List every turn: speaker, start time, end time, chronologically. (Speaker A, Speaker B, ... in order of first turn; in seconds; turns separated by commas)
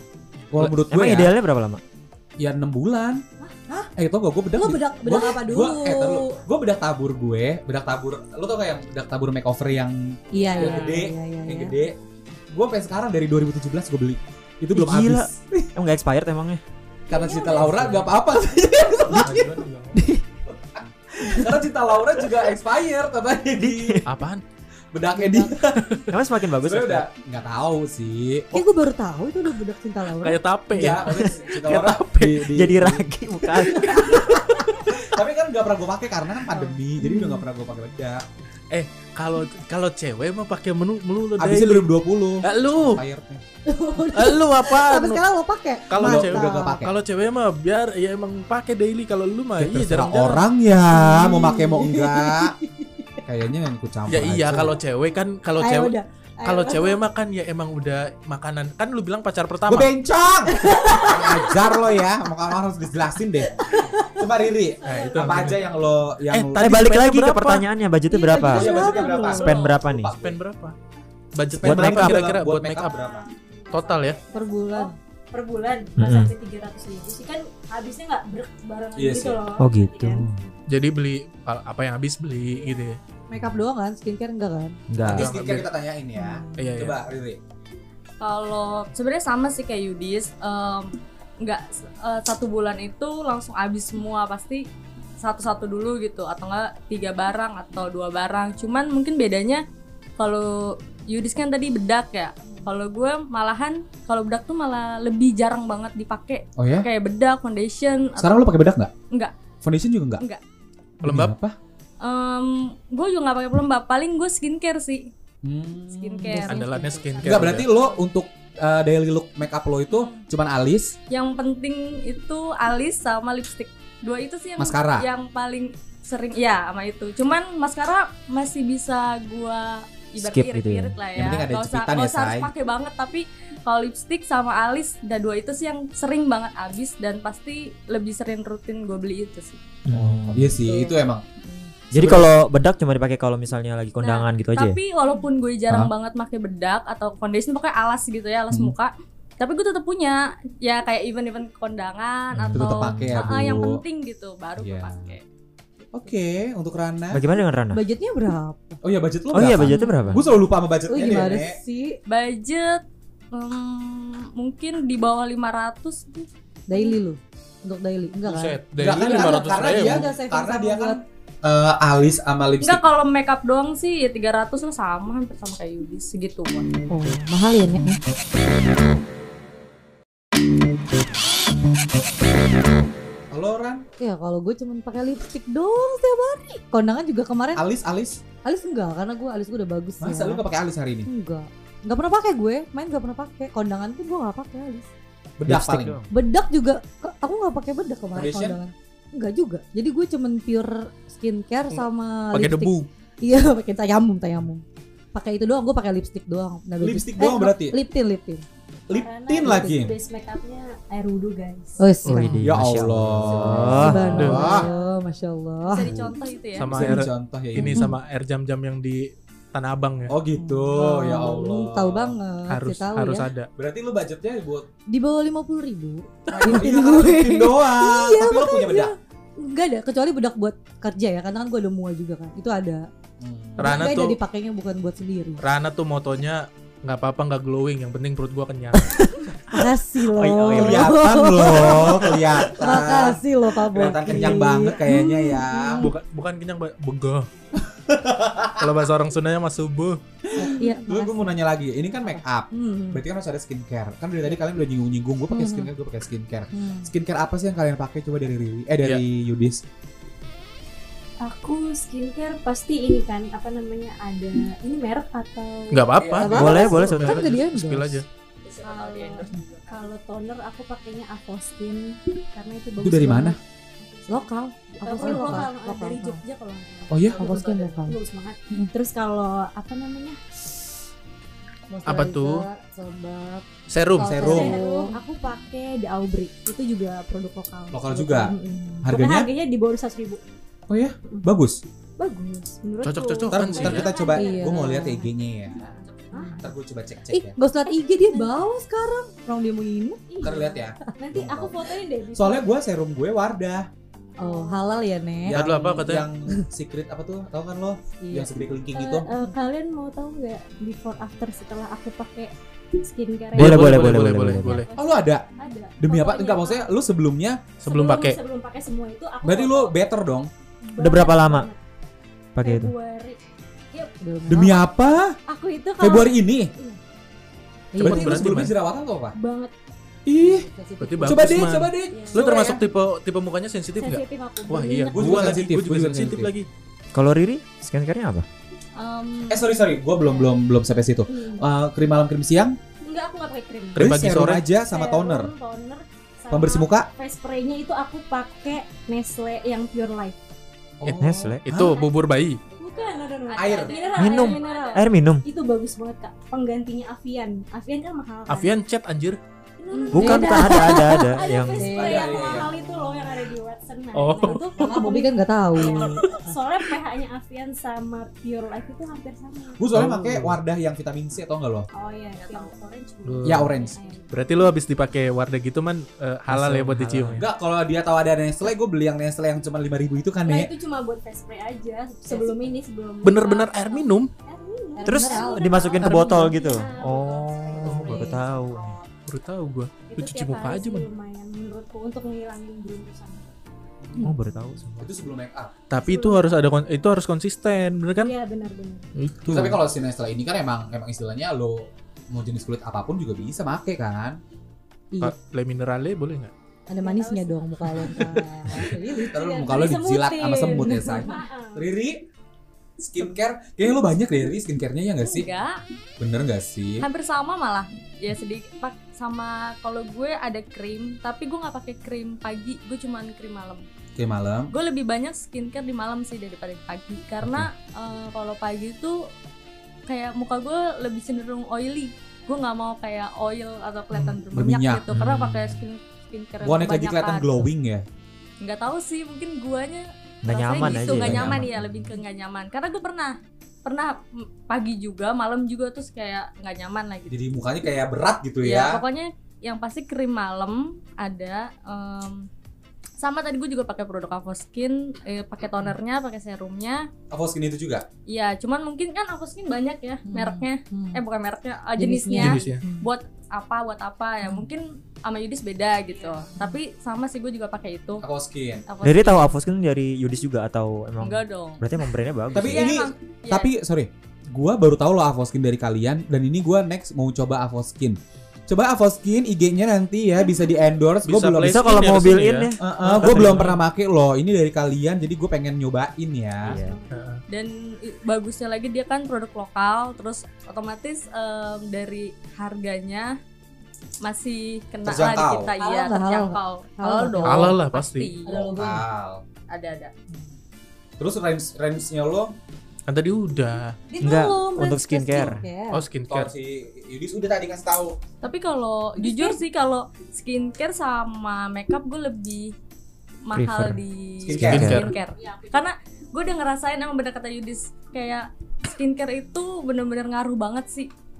Speaker A: 0.5-1.3, Speaker B: 0.7-1.8, Speaker A: 2.4-3.2, Speaker A: 4.0-12.0, Speaker C: 4.5-6.4, Speaker C: 10.3-11.8, Speaker A: 12.5-15.7, Speaker B: 14.7-16.6, Speaker A: 17.1-19.9, Speaker D: 17.1-17.7, Speaker E: 19.1-19.9, Speaker B: 19.9-20.2, Speaker A: 20.5-24.1, Speaker B: 23.6-24.1, Speaker E: 24.1-24.4, Speaker A: 24.9-26.0, Speaker C: 25.1-25.5, Speaker B: 26.1-27.1, Speaker A: 26.6-28.6, Speaker C: 28.5-30.4, Speaker E: 30.2-32.5, Speaker A: 30.7-33.0, Speaker B: 32.5-34.4, Speaker E: 33.5-34.8, Speaker A: 33.8-38.2, Speaker C: 36.5-37.4, Speaker E: 38.7-43.0, Speaker A: 41.4-43.4, Speaker C: 43.7-46.8, Speaker E: 44.1-45.2, Speaker E: 45.9-50.5, Speaker A: 46.0-46.9, Speaker A: 49.6-52.5, Speaker C: 50.9-53.2, Speaker A: 53.3-54.8, Speaker E: 54.1-59.9, Speaker C: 55.6-57.0, Speaker A: 59.7-63.5, Speaker C: 60.5-61.8, Speaker C: 63.5-64.3, Speaker A: 64.1-66.6, Speaker D: 64.8-65.5, Speaker E: 64.8-65.7, Speaker E: 66.3-67.7, Speaker B: 66.6-68.7, Speaker C: 68.1-69.5, Speaker D: 68.3-69.5, Speaker A: 68.4-70.4, Speaker B: 69.3-70.1, Speaker F: 69.4-69.7, Speaker E: 70.2-70.8, Speaker E: 71.3-72.9, Speaker A: 71.5-73.3, Speaker B: 71.6-72.3, Speaker D: 72.8-80.4, Speaker E: 73.7-74.2, Speaker C: 74.3-75.0, Speaker B: 76.0-76.3, Speaker A: 79.0-79.4, Speaker B: 79.6-80.4, Speaker E: 80.7-83.0, Speaker C: 83.3-84.8, Speaker B: 84.9-85.5, Speaker A: 85.0-87.4, Speaker E: 85.0-85.7, Speaker C: 86.2-86.8, Speaker E: 86.6-87.0, Speaker F: 88.2-94.7, Speaker F: 95.2-99.6, Speaker F: 100.2-108.5, Speaker A: 106.6-106.9, Speaker A: 108.2-108.9, Speaker A: 109.6-110.2, Speaker A: 111.0-111.6, Speaker E: 111.0-111.3, Speaker F: 112.0-115.1, Speaker A: 115.4-116.3, Speaker F: 115.9-117.6, Speaker C: 116.2-117.3, Speaker E: 116.4-117.7, Speaker A: 117.2-121.0, Speaker F: 119.9-120.3, Speaker F: 121.1-139.6, Speaker A: 124.6-125.1, Speaker B: 130.2-131.0, Speaker A: 131.1-132.5, Speaker B: 139.9-140.6, Speaker A: 139.9-141.2, Speaker C: 140.6-141.0, Speaker F: 141.4-141.7, Speaker A: 141.9-142.3, Speaker B: 141.9-144.8, Speaker F: 144.0-155.2, Speaker B: 152.3-153.3, Speaker A: 152.5-153.8, Speaker A: 154.6-155.2, Speaker A: 155.9-157.2, Speaker B: 157.1-157.8, Speaker C: 157.7-158.8, Speaker A: 158.8-161.6, Speaker B: 159.3-160.2, Speaker C: 159.8-160.3, Speaker F: 159.8-160.1, Speaker C: 160.9-162.0, Speaker F: 162.1-166.3, Speaker C: 166.7-171.0, Speaker E: 168.2-170.1, Speaker A: 168.8-172.8, Speaker F: 172.6-176.7, Speaker C: 176.9-178.0, Speaker A: 183.3-183.8, Speaker C: 184.0-187.7, Speaker A: 187.6-188.2, Speaker C: 188.4-190.4, Speaker A: 190.0-191.1, Speaker C: 191.1-194.9, Speaker A: 195.4-196.0, Speaker B: 195.4-196.1, Speaker C: 196.1-208.4, Speaker A: 198.1-198.6, Speaker E: 201.7-202.9, Speaker A: 206.8-207.8, Speaker A: 208.9-210.0, Speaker D: 208.9-211.8, Speaker C: 209.4-209.7, Speaker C: 211.8-212.4, Speaker E: 212.1-212.4, Speaker B: 212.1-214.3, Speaker A: 212.4-214.7, Speaker D: 213.2-214.9, Speaker C: 213.7-216.0, Speaker E: 214.2-214.6, Speaker F: 215.7-216.9, Speaker E: 216.6-220.2, Speaker A: 216.7-217.9, Speaker C: 217.6-218.0, Speaker A: 220.1-222.1, Speaker C: 220.4-223.3, Speaker E: 222.5-223.5, Speaker A: 223.6-224.7, Speaker C: 224.9-232.9, Speaker A: 226.3-228.9, Speaker A: 233.2-233.9, Speaker E: 233.6-234.2, Speaker C: 233.6-235.4, Speaker E: 235.4-239.0, Speaker C: 238.8-245.9, Speaker B: 240.1-241.0, Speaker A: 240.5-245.9, Speaker E: 244.1-244.4, Speaker E: 245.8-247.3, Speaker A: 247.6-248.7, Speaker E: 248.6-250.0, Speaker A: 250.3-259.6, Speaker C: 250.4-251.4, Speaker C: 252.0-253.0, Speaker C: 255.3-255.7, Speaker C: 256.5-256.9, Speaker D: 261.2-265.9, Speaker E: 265.7-268.1, Speaker A: 266.0-266.6, Speaker C: 266.2-268.0, Speaker B: 266.3-267.3, Speaker F: 268.5-269.9, Speaker D: 268.6-280.2, Speaker A: 272.8-273.4, Speaker C: 274.1-276.2, Speaker A: 276.9-277.3, Speaker C: 277.2-278.0, Speaker C: 281.7-285.0, Speaker E: 281.9-282.4, Speaker E: 283.7-284.5, Speaker A: 284.0-284.6, Speaker D: 284.2-290.2, Speaker A: 287.7-288.3, Speaker A: 288.9-289.3, Speaker A: 290.7-291.6, Speaker D: 292.0-295.1, Speaker E: 292.8-293.9, Speaker A: 293.3-295.7, Speaker C: 294.1-295.1, Speaker F: 295.8-296.3, Speaker D: 296.1-296.5, Speaker C: 296.2-296.4, Speaker A: 296.4-297.4, Speaker C: 297.1-300.5, Speaker D: 298.0-298.4, Speaker D: 300.1-302.5, Speaker A: 300.2-301.6, Speaker A: 302.1-303.7, Speaker C: 304.2-305.4, Speaker D: 304.2-304.8, Speaker A: 305.2-309.1, Speaker E: 305.3-306.1, Speaker C: 308.0-308.3, Speaker D: 308.7-316.7, Speaker B: 313.4-314.6, Speaker E: 313.4-314.7, Speaker A: 314.8-315.3, Speaker A: 315.8-317.5, Speaker E: 317.6-318.2, Speaker D: 317.6-319.8, Speaker A: 319.2-320.3, Speaker D: 320.6-321.6, Speaker B: 320.8-321.5, Speaker B: 322.4-322.7, Speaker D: 322.4-323.2, Speaker C: 324.0-324.6, Speaker A: 324.3-325.2, Speaker D: 325.3-326.8, Speaker A: 325.8-326.5, Speaker C: 327.7-328.3, Speaker E: 327.8-328.6, Speaker A: 327.8-329.2, Speaker D: 329.1-329.5, Speaker A: 330.1-330.5, Speaker C: 330.2-331.5, Speaker E: 330.8-336.5, Speaker A: 331.0-332.6, Speaker D: 331.9-332.6, Speaker D: 333.8-335.4, Speaker A: 334.9-336.3, Speaker B: 336.9-338.3, Speaker F: 338.8-339.5, Speaker A: 339.3-342.6, Speaker D: 340.0-340.3, Speaker D: 341.1-341.4, Speaker D: 342.8-343.9, Speaker E: 343.8-344.4, Speaker A: 343.8-345.3, Speaker D: 344.6-350.2, Speaker A: 346.3-346.9, Speaker A: 350.8-351.8, Speaker E: 350.8-352.4, Speaker B: 351.0-351.5, Speaker D: 351.7-358.6, Speaker F: 352.5-354.9, Speaker A: 353.4-353.8, Speaker B: 354.0-355.2, Speaker E: 358.3-359.2, Speaker D: 359.6-369.6, Speaker F: 359.7-360.1, Speaker B: 359.9-361.7, Speaker C: 359.9-362.2, Speaker A: 361.6-362.5, Speaker E: 363.9-364.5, Speaker C: 364.2-366.3, Speaker A: 369.6-371.7, Speaker E: 369.7-370.4, Speaker D: 371.7-374.5, Speaker F: 372.1-372.5, Speaker E: 373.1-373.5, Speaker A: 373.2-373.8, Speaker E: 374.1-377.3, Speaker B: 376.3-377.3, Speaker A: 377.2-380.5, Speaker D: 380.2-388.7, Speaker C: 382.1-382.4, Speaker E: 383.0-384.1, Speaker C: 384.8-385.6, Speaker B: 384.9-388.8, Speaker E: 385.8-386.3, Speaker E: 387.6-388.0, Speaker E: 389.1-390.9, Speaker D: 389.9-393.3, Speaker B: 394.0-394.9, Speaker A: 394.8-395.6, Speaker E: 395.7-398.1, Speaker D: 395.8-396.7, Speaker D: 398.0-398.9, Speaker E: 398.9-399.6, Speaker A: 399.3-404.2, Speaker E: 405.0-406.3, Speaker C: 406.7-409.2, Speaker D: 406.8-407.4, Speaker A: 409.1-412.0, Speaker D: 409.1-411.7, Speaker C: 410.7-411.0, Speaker A: 412.8-415.3, Speaker F: 415.0-415.6, Speaker A: 416.0-416.9, Speaker F: 416.8-423.6, Speaker A: 424.0-424.5, Speaker F: 424.5-429.0, Speaker F: 429.9-437.4, Speaker E: 433.9-434.2, Speaker A: 434.3-434.9, Speaker B: 434.9-435.6, Speaker A: 436.4-437.9, Speaker F: 438.4-447.2, Speaker B: 440.2-441.9, Speaker A: 440.6-441.6, Speaker A: 447.1-448.8, Speaker F: 448.4-452.3, Speaker F: 453.0-456.9, Speaker A: 457.1-457.9, Speaker F: 458.1-468.1, Speaker C: 460.1-461.0, Speaker C: 461.8-462.9, Speaker E: 462.2-462.6, Speaker D: 465.9-466.2, Speaker A: 468.0-468.6, Speaker F: 468.7-469.4, Speaker B: 468.8-472.8, Speaker F: 471.0-471.6, Speaker A: 472.3-481.7, Speaker F: 472.3-473.5, Speaker E: 481.1-483.6, Speaker B: 481.4-483.5, Speaker A: 482.6-486.6, Speaker B: 486.4-486.8, Speaker D: 486.5-487.1, Speaker E: 486.9-487.2, Speaker F: 487.3-493.1, Speaker F: 494.0-498.4, Speaker A: 494.8-495.5, Speaker C: 495.6-497.6, Speaker E: 497.2-498.1, Speaker C: 498.2-498.9, Speaker A: 498.3-499.2, Speaker F: 499.5-499.9, Speaker A: 501.0-502.3, Speaker E: 502.9-503.8, Speaker C: 503.9-505.8, Speaker B: 504.0-505.5, Speaker E: 505.7-506.3, Speaker A: 506.1-508.0, Speaker F: 508.2-512.5, Speaker C: 509.0-509.4, Speaker F: 513.2-520.9, Speaker B: 513.3-513.8, Speaker A: 514.2-514.9, Speaker B: 514.3-514.9, Speaker E: 514.4-514.9, Speaker D: 515.2-515.7